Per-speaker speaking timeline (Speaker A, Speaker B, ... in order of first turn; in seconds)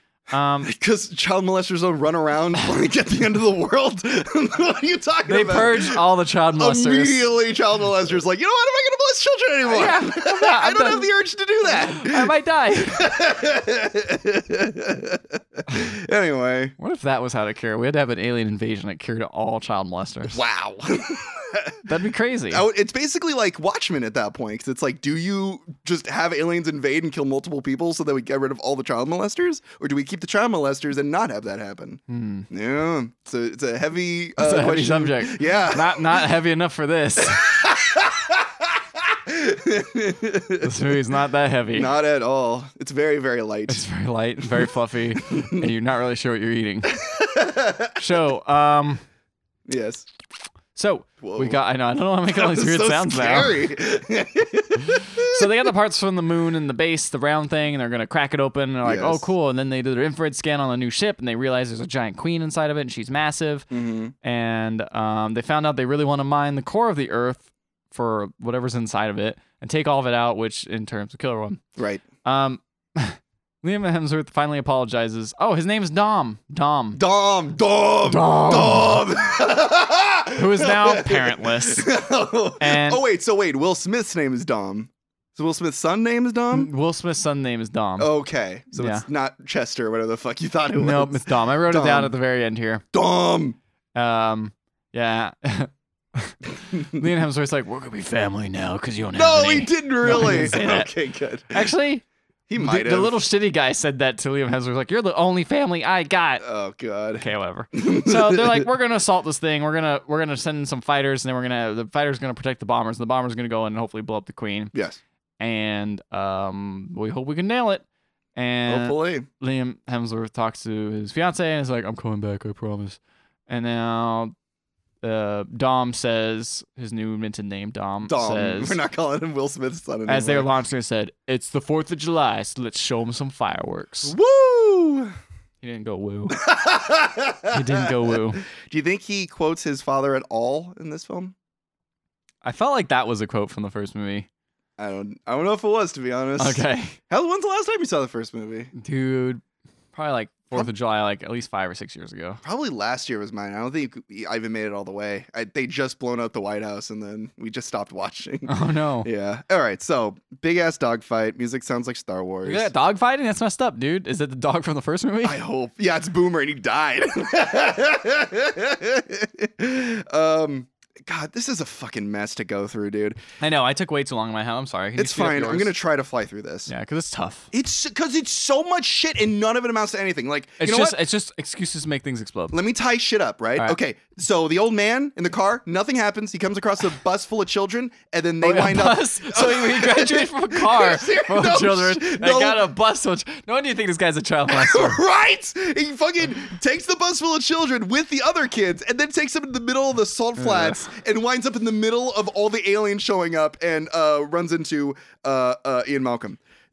Speaker A: 0.3-0.7, 5.3-7.2, 9.7-11.1, 11.6-13.1, 16.8-20.4, 21.8-22.6, 32.1-32.5, 34.4-37.5, 40.6-41.9, 43.7-46.9, 48.0-49.0, 50.7-53.6, 54.9-63.7, 64.2-71.6, 72.2-77.0, 78.0-79.0, 80.3-81.9, 82.6-83.0, 86.5-88.1, 88.7-89.0, 90.8-92.8, 93.9-100.9, 101.5-102.0, 102.6-106.4, 107.2-114.7, 115.4-117.8, 118.3-124.3, 125.0-128.8, 130.1-134.1, 135.6-136.4, 137.5-138.4, 142.4-144.3, 146.4-147.0, 148.8-152.4, 158.5-159.1, 162.4-165.4, 173.4-175.7, 176.7-177.5, 180.6-182.5, 188.4-195.0, 200.4-200.8
Speaker B: 0.6-6.0, 6.5-12.3, 12.9-16.7, 20.3-21.8, 22.5-36.2, 37.4-40.7, 41.7-43.8, 45.2-45.6, 47.0-48.0, 49.7-50.1, 51.2-51.6, 52.3-55.5, 58.8-59.3, 63.7-64.1, 71.8-72.0, 76.9-86.7, 88.0-92.1, 92.9-93.6, 96.7-97.0, 99.1-101.7, 102.5-103.2, 106.4-108.7, 118.7-119.3, 128.0-130.5, 134.0-135.1, 136.3-141.3, 144.8-148.7, 152.4-162.7, 165.2-173.2, 175.0-176.7, 177.5-181.0, 182.5-192.6, 194.5-206.4